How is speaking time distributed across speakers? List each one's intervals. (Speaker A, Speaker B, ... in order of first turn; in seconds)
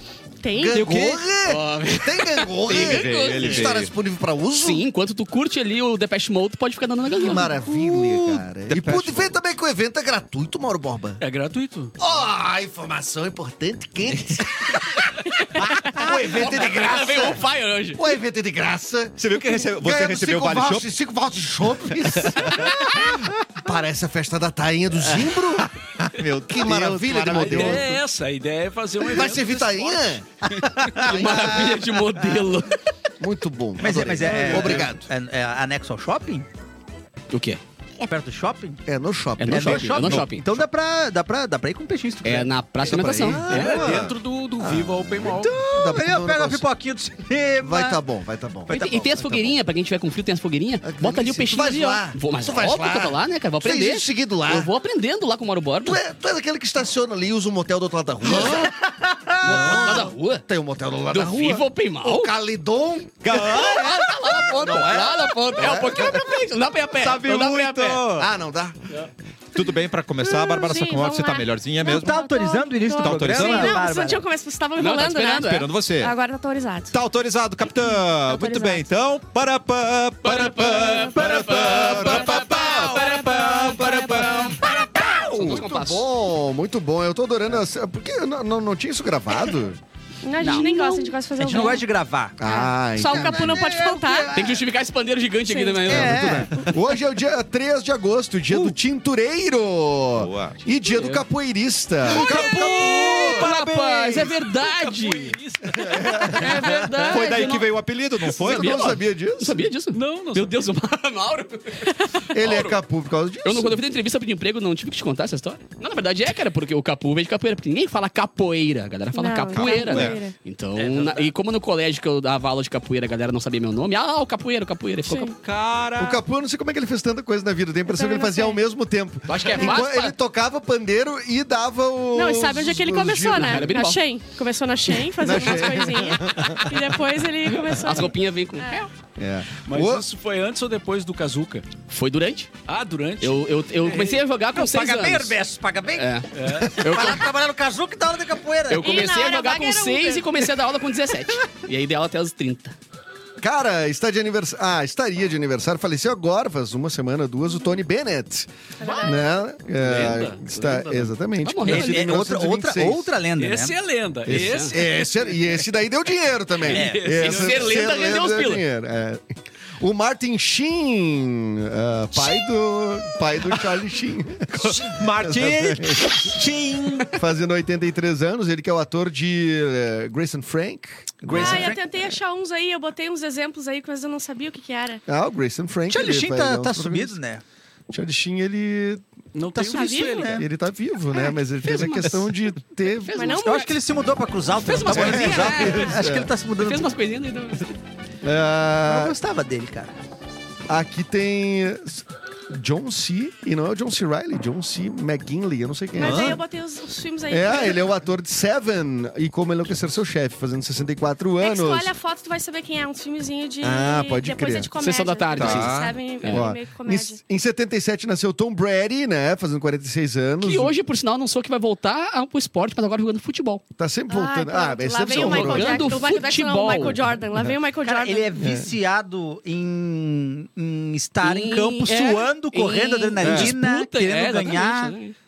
Speaker A: 0.4-0.9, 70.2-76.9, 78.2-78.8, 82.0-82.4, 90.2-91.9, 92.4-94.4, 95.5-96.7, 119.1-120.3, 125.0-125.4, 127.9-128.6, 132.1-138.9, 148.8-150.5, 158.8-159.3, 181.3-185.0, 189.6-190.3, 193.1-193.7, 205.9-207.9, 211.4-217.2, 224.1-228.4
Speaker B: 0.5-4.8, 7.2-11.2, 12.0-15.1, 15.6-17.4, 17.9-25.7, 26.5-28.0, 29.0-30.2, 30.9-31.8, 33.2-35.1, 38.9-40.2, 42.8-46.6, 47.6-49.5, 50.8-54.7, 55.8-58.7, 59.3-63.8, 64.4-66.3, 68.2-68.8, 81.5-82.1, 85.1-89.8, 92.4-93.8, 95.9-103.5, 105.7-107.5, 108.3-109.7, 112.3-113.8, 126.0-133.7, 135.1-137.0, 139.2-140.0, 153.4-163.1, 164.3-169.2, 169.8-176.4, 177.1-181.8, 185.1-187.1, 187.9-189.0, 190.3-193.2, 194.9-196.3, 198.2-199.1, 200.7-206.4, 207.3-211.9, 213.6-214.7, 216.3-220.8, 223.8-226.1, 228.4-228.7, 233.2-233.5
Speaker C: 0.7-1.2, 2.7-3.9, 7.9-9.3, 19.2-20.9, 21.9-22.8, 26.0-27.9, 63.2-64.4, 67.0-68.3, 69.5-72.2, 73.0-73.8, 75.4-76.1, 76.9-84.8, 100.2-100.6, 102.1-102.5, 107.0-109.0, 119.5-120.2, 125.4-126.2, 174.5-177.2, 206.0-206.4, 215.4-216.0
Speaker D: 1.4-3.7, 4.6-7.5, 15.8-18.0, 30.6-32.8, 37.3-37.6, 39.4-40.5, 42.2-43.5, 48.7-56.0, 58.2-58.7, 59.4-60.4, 61.1-62.3, 63.3-68.0, 74.8-75.7, 80.2-84.8, 85.3-86.1, 90.4-91.7, 94.3-96.5, 101.0-101.2, 102.1-105.4, 106.2-107.7, 108.3-112.8, 113.4-125.3, 129.3-130.2, 133.3-134.0, 137.6-138.9, 141.9-142.5, 143.2-145.4, 145.9-147.2, 148.7-152.8, 161.4-162.2, 164.3-164.8, 166.7-168.6, 191.6-192.3, 193.0-193.7, 194.6-197.7, 214.8-216.5, 220.4-223.6, 225.1-227.0, 231.2-235.1
Speaker E: 11.2-11.9, 27.3-30.2, 34.5-34.8, 43.4-45.6, 103.4-106.6, 109.9-110.6, 120.8-121.3, 129.4-129.7, 139.6-141.7, 142.7-144.2, 146.3-146.8, 159.8-161.1, 163.4-165.6, 166.6-168.0, 189.3-190.4
Speaker F: 33.8-36.5, 38.0-38.8, 39.4-42.5, 43.2-43.8, 45.3-48.0, 48.7-49.1, 71.8-74.2, 81.6-82.0, 83.8-85.6, 90.4-90.7, 91.4-94.5, 95.8-96.6, 98.5-98.8, 144.5-146.1, 146.6-149.1, 161.6-163.8, 166.7-167.0, 181.3-181.8, 185.9-187.4, 189.5-190.5, 193.3-196.9, 198.8-199.9, 227.8-234.9